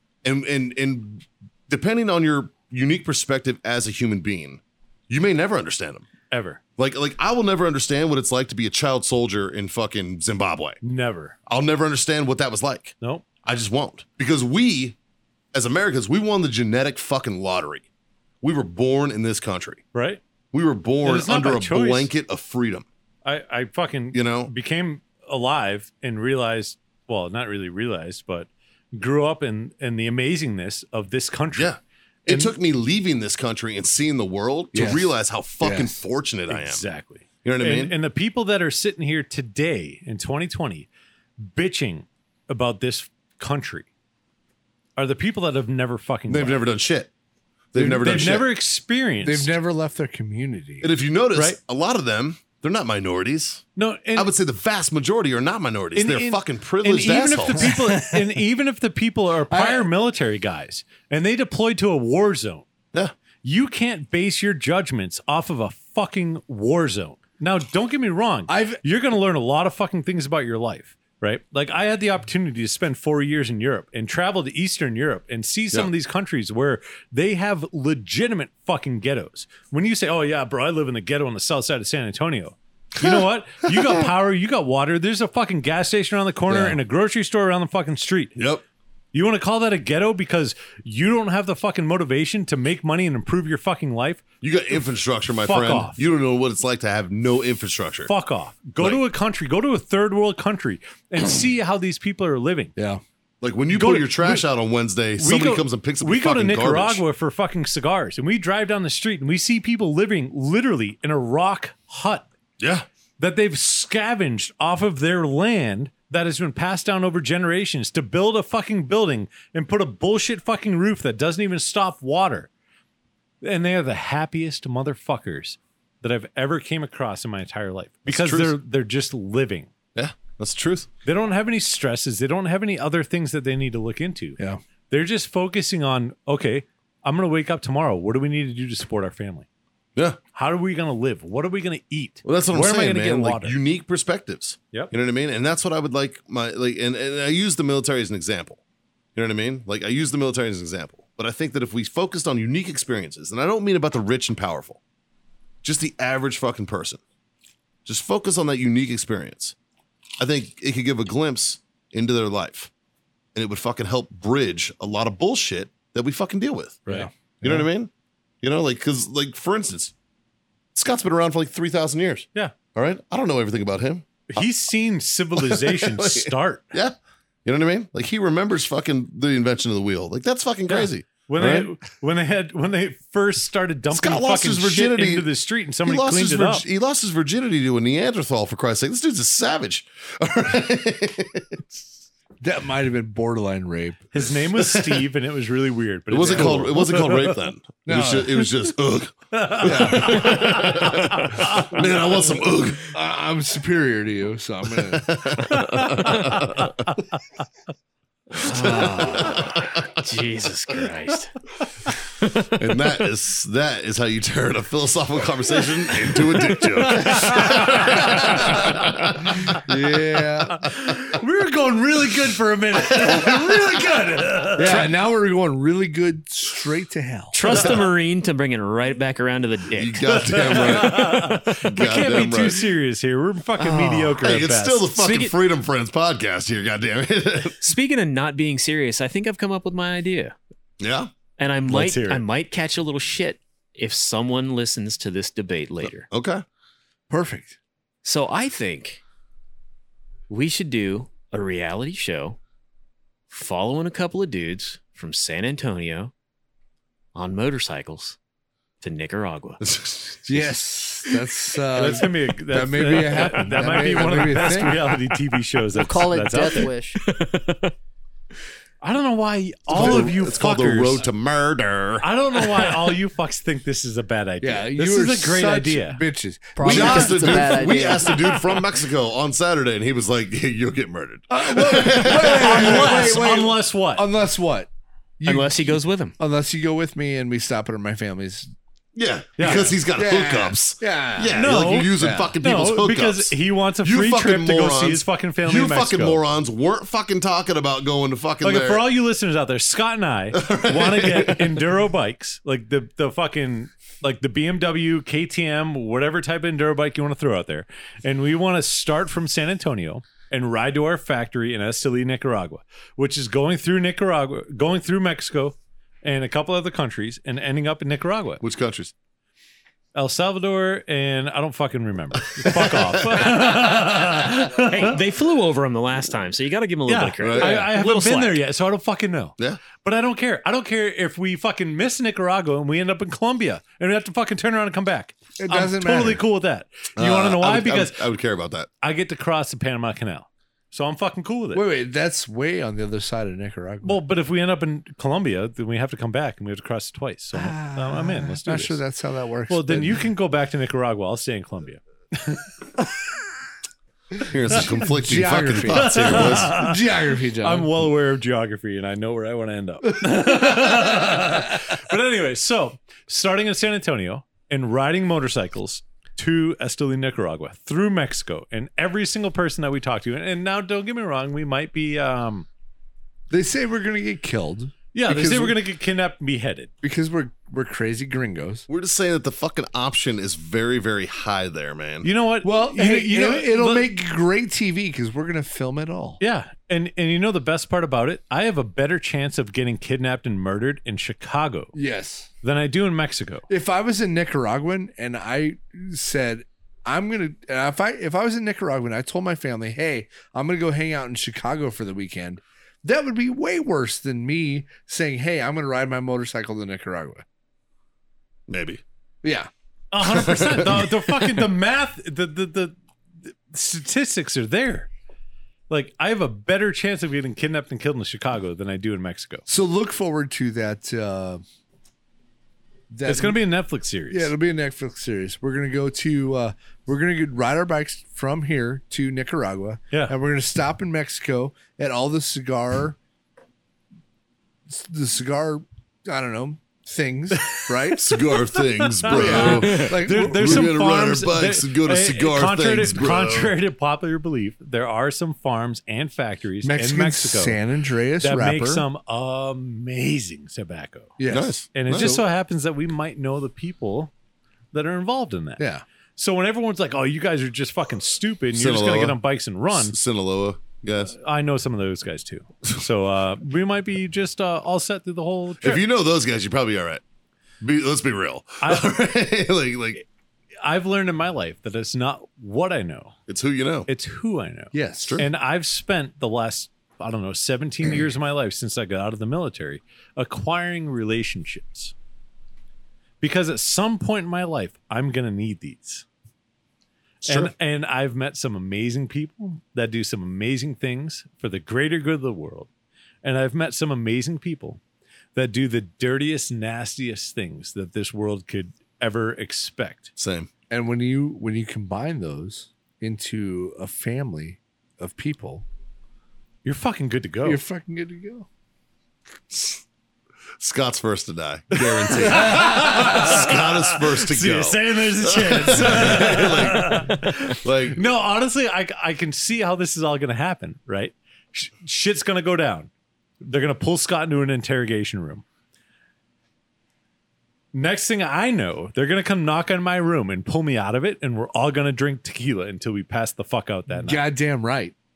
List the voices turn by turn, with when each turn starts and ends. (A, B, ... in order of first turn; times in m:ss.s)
0:00.2-0:06.0 A
0:06.3-0:06.6 B
0:06.8-0:10.8 A
0:10.8-0:11.4 B
0:11.5-0:15.0 A
0:15.5-0:17.8 A
0:18.4-0:19.8 A
0:19.9-0:20.2 B
0:20.5-0:22.8 A
0:21.0-0:22.1 B
0:23.2-0:31.7 B
0:24.1-0:24.5 A
0:31.5-0:36.8 A
0:32.3-0:32.5 B
0:34.7-0:36.0 C
0:36.5-0:40.9 B
0:37.4-0:37.9 A
0:41.4-0:43.9 B
0:45.0-0:46.6 B
0:46.3-0:47.1 A
0:47.7-0:48.5 A
0:47.7-0:48.4 C
0:48.0-0:49.5 B
0:49.2-0:50.9 C
0:50.8-0:57.6 A
0:53.8-0:54.3 B
0:55.9-1:02.6 B
0:57.6-0:58.3 C
0:59.5-0:59.9 C
1:03.4-1:28.4 B
1:08.5-1:08.8 C
1:26.5-1:26.8 C
1:28.4-1:28.6 A
1:29.1-1:34.2 B
1:34.4-1:38.1 A
1:35.4-1:36.0 B
1:38.1-1:42.7 B
1:43.4-1:47.0 A
1:43.7-1:44.4 B
1:45.2-1:52.3 B
1:52.6-1:52.8 A
1:53.2-2:02.5 B
2:03.4-2:09.7 B
2:08.1-2:08.5 A
2:09.9-2:10.9 A
2:11.0-2:14.4 B
2:14.9-2:19.4 B
2:20.3-2:23.6 B
2:22.2-2:28.6 A
2:29.1-2:34.8 A
2:35.6-2:37.0 A
2:37.8-2:39.5 A
2:40.2-2:42.7 A
2:43.3-2:46.8 A
2:46.9-2:47.6 C
2:47.4-2:47.9 A
2:48.4-2:49.9 A
2:50.7-2:54.4 A
2:54.3-2:56.7 B
2:55.4-3:01.7 A
3:00.7-3:06.6 B
3:03.9-3:05.3 A
3:05.8-3:11.9 A
3:12.4-3:14.1 C
3:14.1-3:17.4 B
3:16.1-3:22.9 A
3:16.2-3:16.7 C
3:17.8-3:18.5 C
3:19.3-3:21.4 B
3:19.6-3:20.5 C
3:22.8-3:25.2 C
3:24.8-3:26.9 A
3:25.6-3:26.6 B
3:28.4-3:31.3 D
3:28.4-3:29.8 A
3:28.6-3:29.4 C
3:31.9-3:32.5 D
3:32.6-3:39.6 A
3:36.8-3:38.7 B
3:39.6-3:40.6 C
3:40.6-3:44.9 B
3:42.9-3:43.4 A
3:44.6-3:47.4 C
3:47.3-3:51.3 D
3:47.4-3:47.8 A
3:49.7-3:52.7 A
3:50.2-3:54.9 B
3:53.6-3:54.2 D
3:54.2-3:57.6 A
3:54.9-3:55.3 D
3:57.6-4:00.3 D
4:00.8-4:01.1 A
4:01.4-4:06.1 D
4:01.7-4:02.2 B
4:05.8-4:06.4 A
4:07.1-4:07.6 C
4:08.0-4:09.0 D
4:10.3-4:12.4 D
4:13.3-4:16.1 D
4:17.1-4:18.2 D
4:18.8-4:19.6 D
4:19.6-4:20.5 A
4:20.3-4:24.8 C
4:21.7-4:26.7 B
4:25.7-4:27.0 E
4:27.0-4:27.7 D
4:28.8-4:31.1 B
4:29.7-4:32.0 A
4:29.8-4:30.1 C
4:32.0-4:36.0 B
4:32.4-4:32.9 D
4:34.4-4:37.9 C
4:36.6-4:38.4 E
4:36.6-4:43.2 A
4:41.3-4:44.7 C
4:42.0-4:44.1 B
4:45.2-4:48.5 C
4:45.2-4:46.2 D
4:48.9-4:58.8 A
4:49.4-4:49.7 B
4:49.4-4:52.3 C
4:51.3-4:56.2 B
4:58.4-5:18.4 B
5:00.3-5:01.6 A
5:18.4-5:18.9 A
5:19.9-5:25.0 B
5:22.3-5:23.3 A
5:23.5-5:28.4 D
5:26.8-5:38.0 B
5:27.2-5:27.5 A
5:35.4-5:36.2 C
5:37.0-5:38.7 A
5:38.8-5:41.6 B
5:41.5-5:44.0 C
5:43.8-5:48.8 B
5:47.3-5:50.0 C
5:49.5-5:52.5 B
5:54.2-5:56.6 A
5:54.5-5:57.7 C
5:55.7-6:12.4 B
6:13.3-6:15.6 C
6:14.9-6:16.7 B
6:16.8-6:18.6 C
6:18.7-6:22.1 A
6:22.0-6:23.9 B
6:22.4-6:26.2 C
6:26.2-6:31.7 B
6:31.7-6:32.3 C
6:32.4-6:33.4 B
6:33.5-6:47.2 C
6:48.5-6:48.8 A
6:49.2-6:49.5 C
6:49.9-6:52.8 B
6:50.0-6:51.4 A
6:53.3-6:54.9 B
6:55.7-6:59.4 B
6:59.5-7:01.4 C
7:02.9-7:03.4 C
7:03.0-7:04.3 B
7:04.1-7:13.0 C
7:14.7-7:18.0 C
7:17.4-7:27.6 B
7:18.0-7:23.5 A
7:19.1-7:20.8 C
7:26.6-7:28.8 C
7:28.2-7:31.2 B
7:31.2-7:32.2 C
7:31.3-7:32.2 A
7:31.7-7:34.1 B
7:34.7-7:35.6 B
7:35.6-7:35.8 C
7:36.2-7:40.0 B
7:38.5-7:39.2 A
7:39.7-7:41.2 A
7:41.1-7:45.8 B
7:45.6-7:47.0 A
7:47.6-7:50.0 A
7:48.6-7:48.9 B
7:50.6-7:53.2 B
7:53.3-7:53.9 A
7:53.9-8:01.9 B
7:54.7-7:55.2 C
7:55.0-7:55.3 A
8:03.2-8:06.0 B
8:07.2-8:07.5 A
8:07.3-8:12.7 B
8:13.2-8:14.8 B
8:15.3-8:20.1 B
8:20.2-8:20.5 A
8:20.7-8:25.6 C
8:26.6-8:27.6 B
8:27.4-8:28.5 C
8:29.5-8:29.8 A
8:30.6-8:38.0 A
8:32.0-8:42.9 B
8:32.2-8:33.4 C
8:43.4-8:45.4 B
8:47.7-8:54.2 B
8:53.9-8:54.9 C